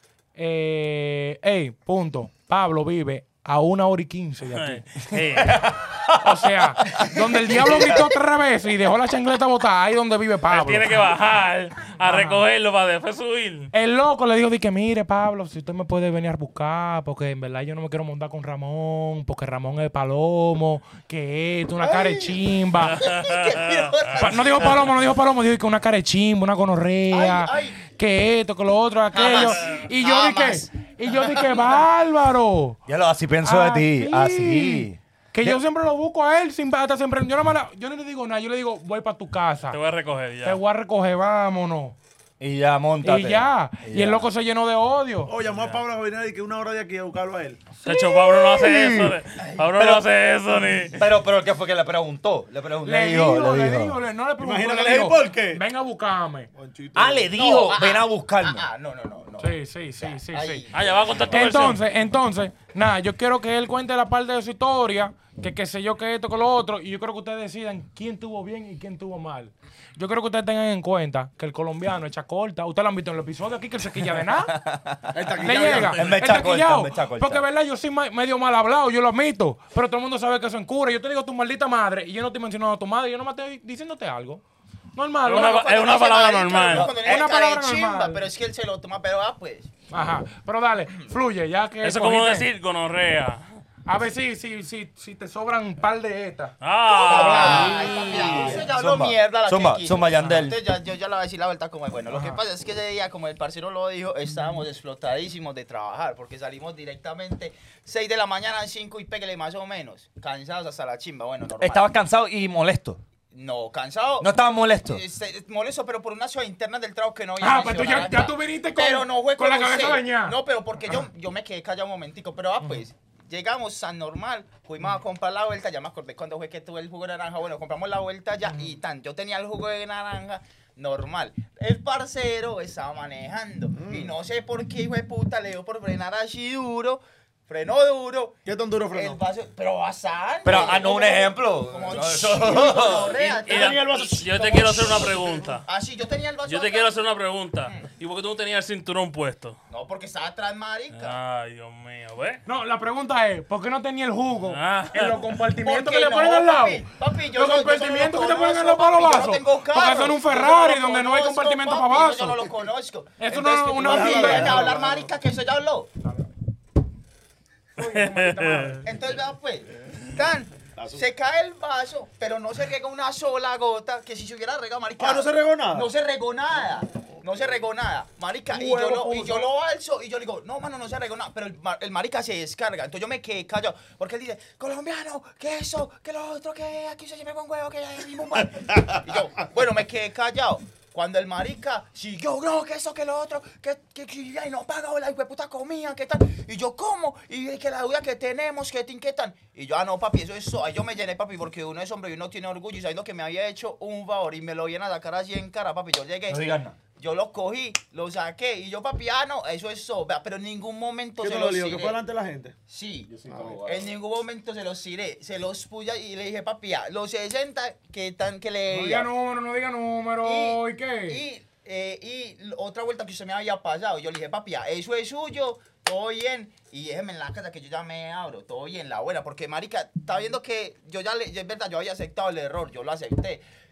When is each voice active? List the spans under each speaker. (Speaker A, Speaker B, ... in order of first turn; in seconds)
Speaker A: 0.3-5.3, 6.2-11.0, 12.0-12.4, 13.7-23.0, 24.2-32.8, 33.4-39.8, 40.4-42.0, 43.0-45.3, 52.8-56.5, 59.4-60.6, 61.3-74.6, 75.4-84.4, 84.9-85.6, 86.8-88.2, 89.9-92.5, 93.8-96.5, 102.1-102.4, 117.4-120.3, 152.4-162.4, 163.2-164.8, 167.8-168.9, 178.5-179.4, 218.7-221.2
Speaker B: 4.5-5.7, 10.5-13.7, 22.9-24.3, 39.7-40.6, 45.5-45.8, 47.8-51.0, 60.7-61.8, 85.2-86.9, 91.8-93.4, 96.6-97.9, 143.2-145.7, 146.4-149.6, 150.9-152.4, 154.5-155.2, 167.8-168.8
Speaker C: 5.4-8.1, 32.9-35.6, 42.4-44.3, 47.9-50.0, 51.0-54.0, 56.9-58.7, 74.5-75.2, 75.9-77.4, 97.0-100.6, 111.6-113.0, 114.2-115.0, 140.4-143.2, 206.3-206.8, 213.1-213.9
Speaker D: 21.8-22.4, 22.9-24.8, 27.1-27.8, 29.1-31.8, 57.3-61.5, 85.3-89.7, 96.9-111.9, 113.3-114.3, 114.8-146.9, 149.7-151.2, 155.6-165.9, 168.8-212.0, 212.7-219.1, 220.2-233.4
Speaker E: 45.2-47.6, 54.4-55.6, 56.5-57.3, 75.1-76.0, 133.7-134.1, 138.4-139.2, 142.7-144.2, 163.8-165.1, 170.7-171.0, 175.0-175.9, 178.5-179.4, 211.2-212.6, 213.2-213.7